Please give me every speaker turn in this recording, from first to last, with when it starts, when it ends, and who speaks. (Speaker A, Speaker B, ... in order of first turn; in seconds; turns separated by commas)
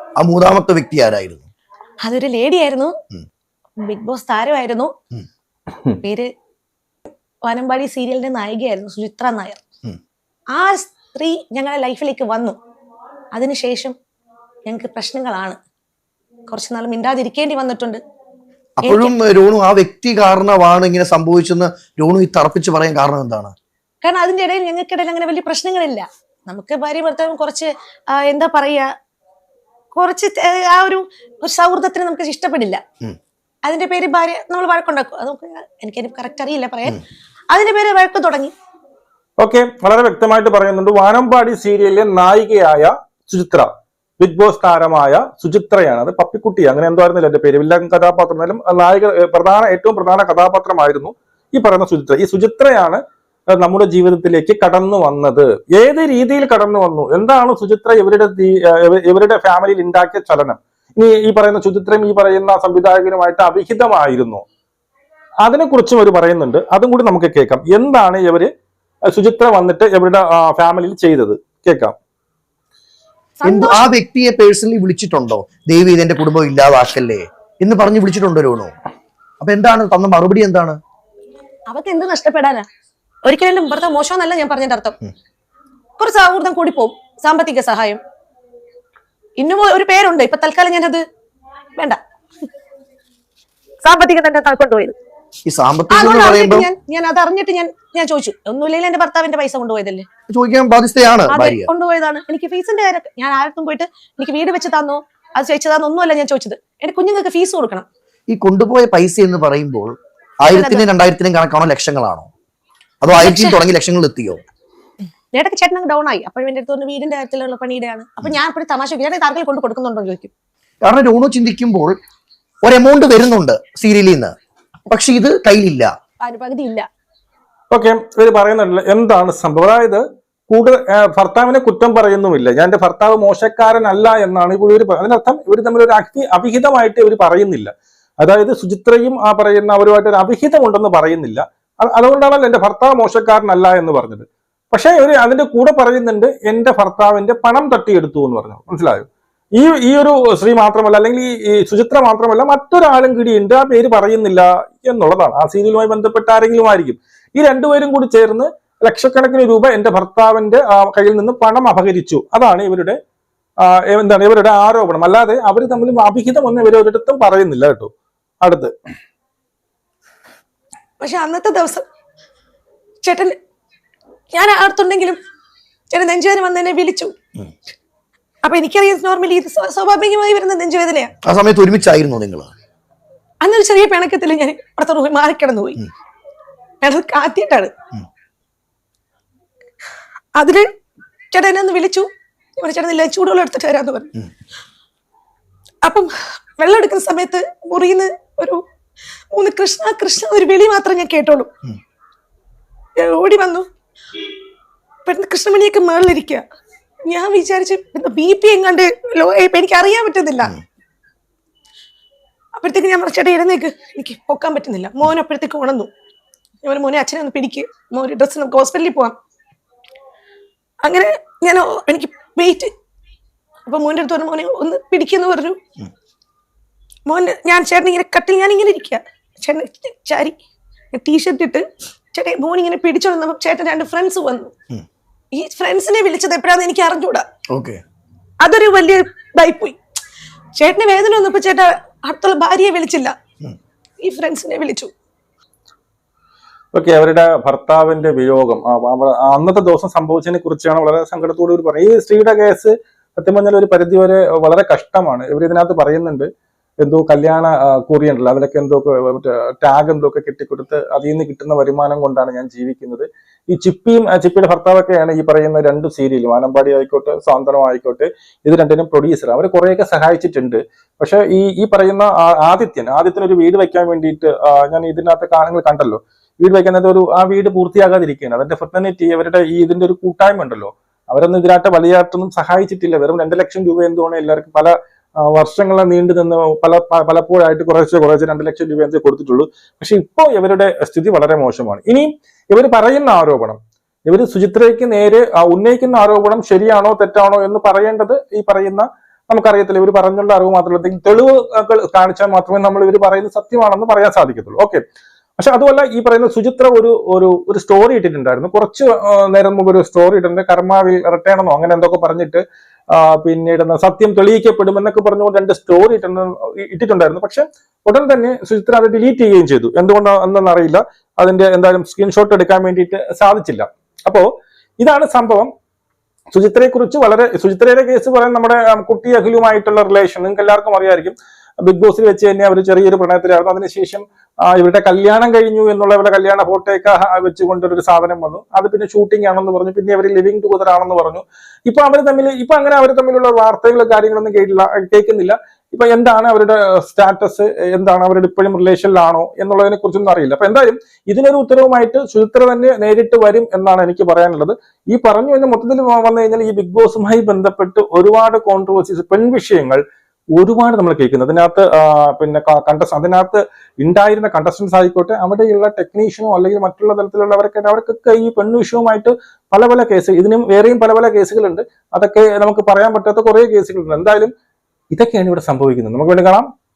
Speaker A: 0.2-1.5, Speaker B: 2.0-2.9, Speaker B: 3.8-4.9, Speaker B: 6.0-6.3, Speaker B: 7.4-9.6, Speaker B: 10.5-12.6, Speaker B: 13.3-13.9, Speaker B: 14.7-15.6, Speaker B: 16.5-18.0, Speaker A: 18.8-23.5, Speaker B: 18.8-19.1, Speaker B: 24.0-28.9, Speaker B: 29.9-32.8, Speaker B: 33.6-38.5, Speaker C: 39.4-43.7, Speaker C: 44.2-53.0, Speaker C: 53.5-64.4, Speaker C: 65.4-68.5, Speaker C: 69.1-71.9, Speaker B: 73.4-73.9, Speaker A: 73.4-78.7, Speaker A: 79.4-80.8, Speaker B: 81.7-82.7, Speaker B: 83.2-85.0, Speaker B: 86.0-88.0, Speaker B: 89.4-91.0, Speaker B: 93.8-94.9, Speaker A: 95.5-96.7, Speaker B: 95.9-100.1, Speaker A: 100.3-101.7, Speaker B: 101.3-107.8, Speaker A: 108.3-112.3, Speaker B: 110.5-110.8, Speaker A: 113.0-114.4, Speaker B: 113.2-113.6, Speaker B: 115.3-120.3, Speaker A: 120.8-122.0, Speaker A: 122.6-124.3, Speaker A: 124.9-125.9, Speaker B: 126.2-126.9, Speaker C: 127.7-163.0, Speaker C: 163.6-167.9, Speaker C: 168.4-168.7, Speaker B: 171.0-171.8, Speaker B: 173.0-173.4, Speaker B: 174.3-175.2, Speaker B: 175.9-177.1, Speaker B: 178.4-181.1, Speaker A: 181.2-182.5, Speaker B: 183.4-185.8, Speaker B: 186.8-187.7, Speaker B: 190.4-190.7, Speaker B: 191.3-194.1, Speaker B: 195.8-198.6, Speaker B: 199.3-201.5, Speaker B: 203.0-203.7, Speaker B: 205.1-206.4, Speaker B: 207.1-210.5, Speaker B: 212.6-215.9, Speaker B: 216.6-219.2, Speaker B: 220.8-222.7, Speaker B: 223.7-225.6, Speaker B: 227.1-230.4, Speaker B: 230.9-234.5, Speaker B: 235.3-237.2, Speaker A: 237.5-237.8, Speaker B: 238.4-239.8, Speaker B: 240.6-243.1, Speaker B: 244.0-244.9, Speaker C: 246.7-256.3, Speaker C: 256.8-304.8, Speaker C: 305.4-324.2, Speaker C: 324.8-325.5, Speaker C: 326.3-359.8, Speaker C: 360.3-374.3, Speaker C: 374.9-376.5